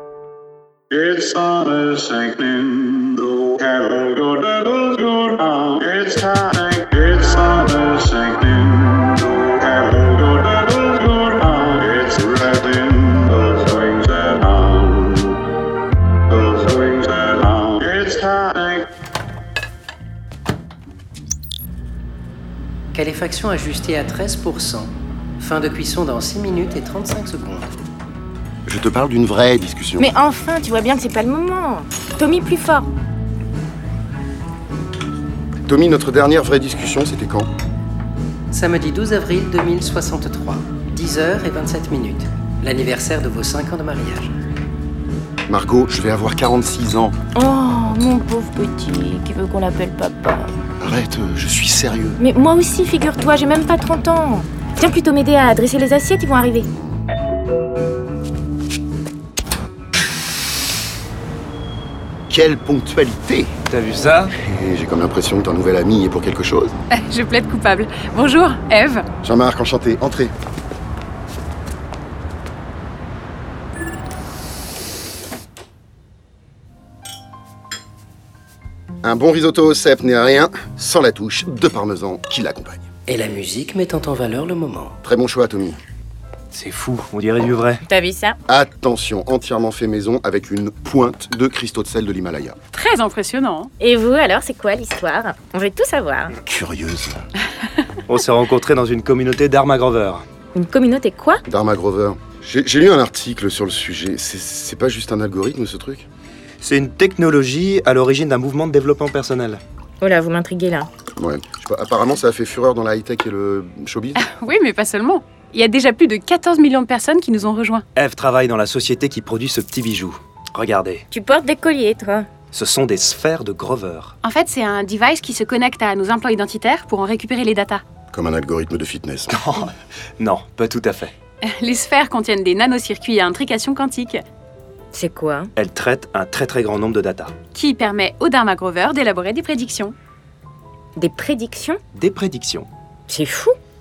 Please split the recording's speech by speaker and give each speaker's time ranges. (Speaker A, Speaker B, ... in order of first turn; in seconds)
Speaker A: 0.9-15.4, 16.3-18.8
Speaker B: 22.9-27.7, 38.5-44.3, 83.1-85.0
Speaker C: 28.7-30.1, 35.7-37.5, 45.5-47.2, 50.8-52.2, 62.3-63.5, 64.3-66.8, 69.2-70.3, 79.0-82.9, 85.0-85.8, 88.5-92.6, 96.4-97.3, 101.5-106.1, 111.2-114.2, 128.1-129.4
Speaker D: 30.0-32.9, 47.4-50.5, 52.2-56.7, 87.9-88.4, 93.8-96.4, 100.5-101.4, 110.0-110.9, 121.1-122.3, 134.9-135.5, 141.0-141.8, 143.1-143.6
Speaker E: 63.7-64.3, 86.5-87.8, 98.1-100.2, 106.6-109.6, 118.0-121.0, 122.5-124.2, 129.3-131.1, 135.6-137.3, 141.9-142.7
Speaker F: 66.9-69.0, 92.7-93.7, 114.2-117.8, 124.2-127.8, 131.4-134.2, 137.5-139.9